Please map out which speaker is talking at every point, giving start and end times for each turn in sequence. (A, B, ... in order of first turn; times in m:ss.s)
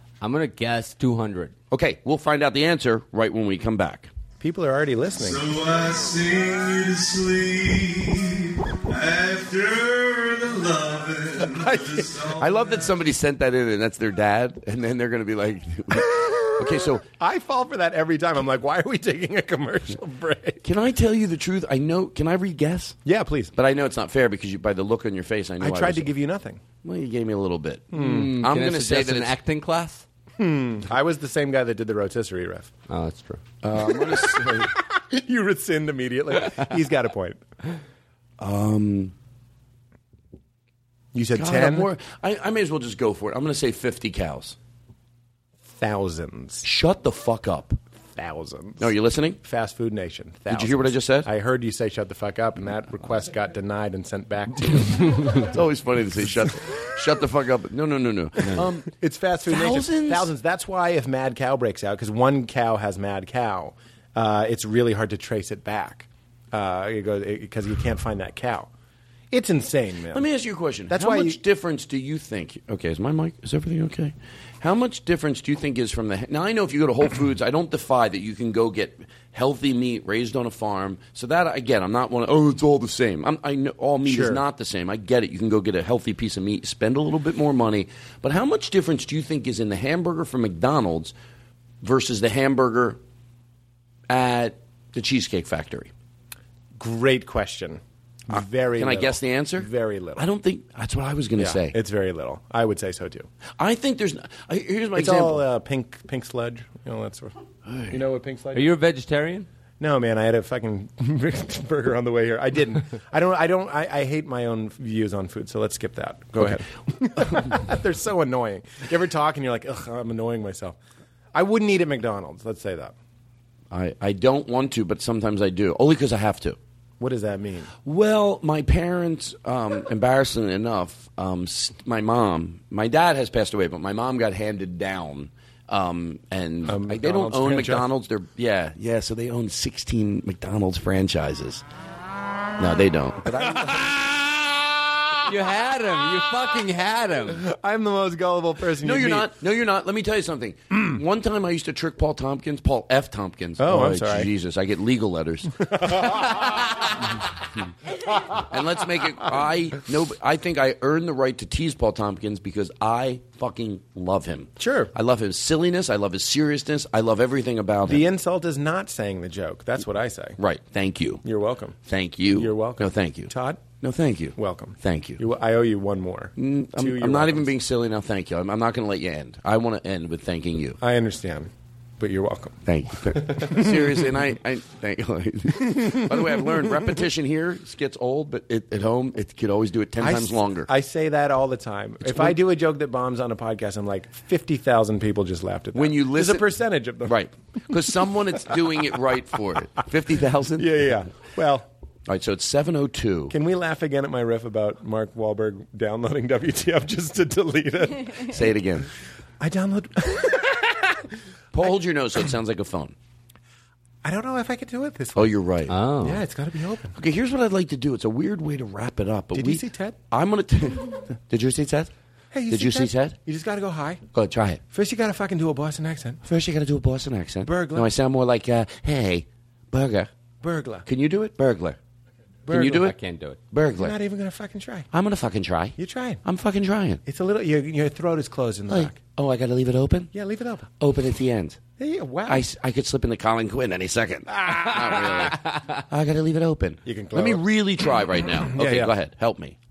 0:00.2-0:01.5 A
0:01.7-0:04.1 B
0:04.4-0:05.4 C
0:05.2-0:12.8 D
0:11.5-0:12.2 C
0:12.3-0:17.0 B
0:16.2-0:20.6 C
0:20.6-0:23.0 B
0:23.0-0:23.5 C
0:23.5-0:26.1 B
0:25.6-0:26.6 C
0:26.8-0:29.4 B
0:27.9-0:28.3 C
0:27.9-0:30.0 A
0:30.4-0:32.7 C
0:32.9-0:33.4 A
0:33.6-0:34.7 B
0:34.1-0:37.4 C
0:38.4-0:39.1 B
0:41.1-0:41.9 C
0:41.3-0:44.6 B
0:45.6-0:46.6 C
0:46.6-0:47.8 B
0:48.0-0:48.9 C
0:48.8-0:49.4 B
0:49.4-0:54.8 C
0:50.5-0:51.3 B
0:54.6-0:58.9 B
0:58.9-1:08.7 C
0:59.5-1:00.3 B
1:09.3-1:10.2 C
1:10.1-1:31.1 B
1:10.9-1:11.4 C
1:24.0-1:24.4 C
1:31.8-1:33.0 B
1:34.1-1:35.9 B
1:36.8-1:40.2 C
1:38.3-1:41.8 B
1:41.4-1:43.3 C
1:43.6-1:45.4 B
1:44.9-1:47.3 C
1:47.6-1:48.0 B
1:47.9-1:48.7 C
1:48.5-1:49.5 A
1:49.8-2:00.8 C
1:56.4-1:56.6 B
1:57.2-1:57.6 B
2:01.3-2:02.9 C
2:03.7-2:06.6 B
2:07.0-2:07.7 C
2:07.8-2:21.6 B
2:16.6-2:17.9 C
2:22.6-2:23.9 B
2:25.3-2:27.4 A
2:27.4-2:29.3 C
2:28.8-2:36.3 B
2:30.7-2:31.0 C
2:33.6-2:34.3 C
2:35.7-2:36.4 C
2:38.5-2:48.0 B
2:44.6-2:44.9 C
2:47.8-2:50.4 C
2:50.4-2:51.2 B
2:51.2-2:51.8 C
2:51.8-2:55.2 B
2:52.3-2:53.6 C
2:54.4-2:57.5 C
2:56.4-3:00.8 B
3:00.8-3:02.6 C
3:02.6-3:10.7 B
3:03.2-3:04.1 C
3:05.8-3:07.0 C
3:10.0-3:17.1 C
3:12.0-3:12.4 B
3:15.7-3:16.4 B
3:17.0-3:20.7 B
3:20.6-3:21.6 C
3:22.1-3:23.3 B
3:23.3-3:28.2 C
3:28.3-3:28.9 B
3:29.4-3:30.9 C
3:31.5-3:32.9 B
3:34.0-3:35.4 C
3:35.2-3:35.8 B
3:35.7-3:36.2 A
3:36.0-3:36.9 C
3:36.9-3:41.9 B
3:39.3-3:40.0 C
3:42.3-3:44.0 C
3:42.5-3:43.2 B
3:44.1-3:44.6 B
3:44.7-3:46.2 C
3:46.2-3:50.1 B
3:47.4-3:47.9 C
3:50.4-3:50.8 C
3:50.8-3:51.8 B
3:52.5-3:52.9 C
3:52.5-3:53.0 B
3:52.7-3:53.4 A
3:53.5-3:53.9 B
3:53.8-3:54.9 C
3:54.9-3:57.0 B
3:55.8-3:56.2 C
3:57.0-3:59.0 C
3:58.7-4:00.1 B
4:00.1-4:00.7 C
4:00.8-4:01.6 B
4:01.8-4:02.4 C
4:02.3-4:09.6 B
4:06.8-4:07.4 C
4:08.4-4:08.9 C